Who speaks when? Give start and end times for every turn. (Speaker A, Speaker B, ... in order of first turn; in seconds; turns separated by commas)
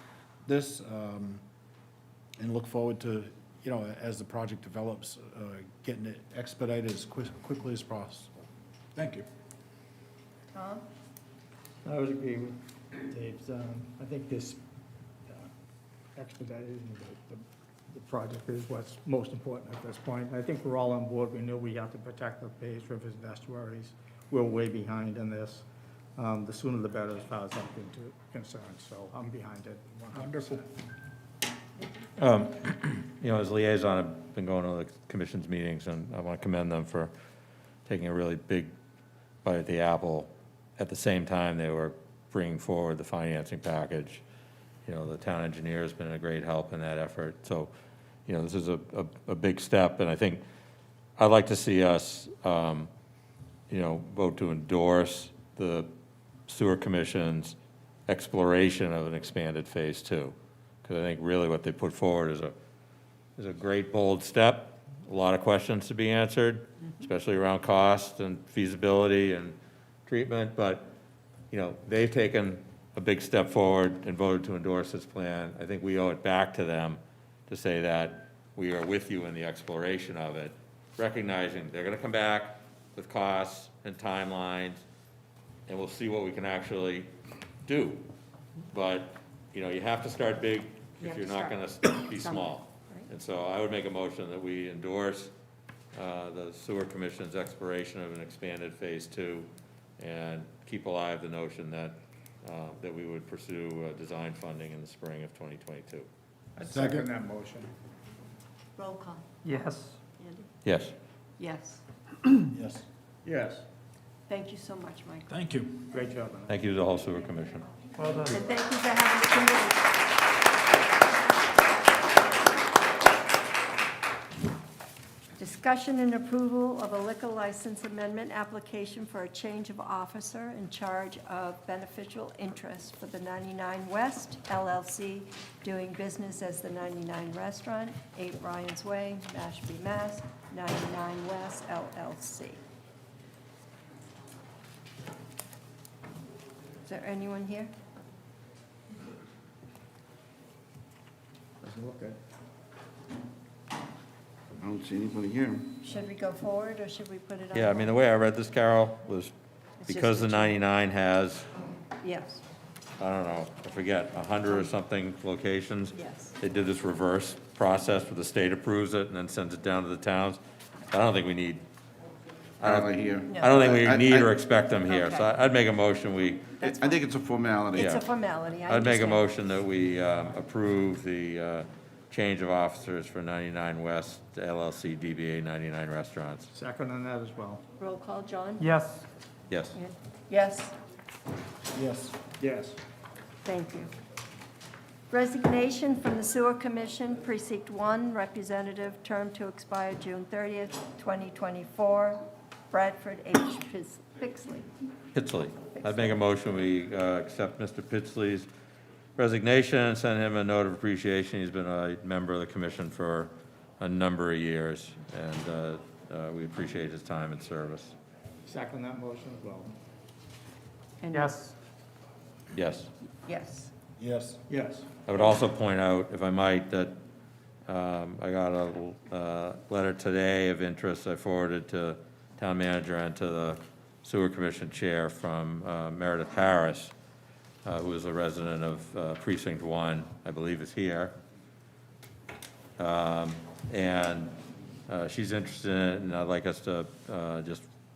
Speaker A: 0.5-1.4, Speaker A: 2.4-8.3, Speaker A: 9.0-9.2, Speaker B: 10.5-10.8, Speaker C: 11.8-14.6, Speaker C: 16.1-25.6, Speaker C: 26.2-30.6, Speaker D: 32.2-37.1, Speaker D: 37.9-38.7, Speaker D: 39.4-44.2, Speaker D: 44.8-47.7, Speaker D: 48.3-50.4, Speaker D: 51.2-52.9, Speaker D: 53.7-55.9, Speaker D: 56.5-57.5, Speaker D: 58.1-62.5, Speaker D: 63.4-69.5, Speaker D: 70.1-70.9, Speaker D: 71.5-84.8, Speaker D: 85.7-87.1, Speaker D: 87.7-88.1, Speaker D: 88.7-95.3, Speaker B: 91.0-93.1, Speaker D: 95.9-106.1, Speaker C: 106.6-107.7, Speaker A: 106.6-107.1, Speaker B: 108.8-109.5, Speaker C: 109.4-110.0, Speaker B: 110.2-110.5, Speaker D: 110.6-110.9, Speaker B: 111.4-111.8, Speaker A: 112.5-112.8, Speaker C: 113.2-113.6, Speaker B: 114.3-115.3, Speaker C: 115.8-116.5, Speaker D: 116.5-117.7, Speaker C: 118.0-118.4, Speaker B: 118.3-119.9, Speaker B: 125.4-142.6, Speaker B: 146.8-147.7, Speaker E: 154.6-155.7, Speaker B: 155.8-157.9, Speaker D: 157.5-159.3, Speaker B: 159.8-160.6, Speaker D: 159.9-161.5, Speaker B: 162.0-162.4, Speaker D: 163.0-170.4, Speaker B: 165.9-166.3, Speaker D: 170.9-171.6, Speaker D: 172.6-176.6, Speaker E: 172.6-174.3, Speaker B: 173.2-173.6, Speaker B: 174.8-175.3, Speaker B: 176.6-177.1, Speaker E: 176.6-177.8, Speaker B: 177.7-179.2, Speaker D: 177.7-178.0, Speaker D: 178.7-186.5, Speaker C: 186.5-187.6, Speaker B: 187.8-188.7, Speaker C: 188.6-189.0, Speaker D: 189.5-189.8, Speaker B: 189.7-190.8, Speaker A: 191.7-192.2, Speaker C: 192.4-192.8, Speaker B: 193.4-193.9, Speaker B: 195.1-204.7, Speaker D: 205.1-208.5, Speaker B: 205.7-206.2, Speaker D: 209.2-217.9, Speaker C: 218.5-219.7, Speaker B: 221.0-221.4, Speaker C: 221.1-221.5, Speaker D: 222.5-222.9, Speaker B: 223.2-223.7, Speaker A: 224.0-224.4, Speaker C: 224.5-224.8, Speaker D: 225.1-227.0, Speaker D: 227.7-236.9, Speaker D: 237.6-241.1, Speaker D: 242.8-244.3, Speaker D: 244.9-247.6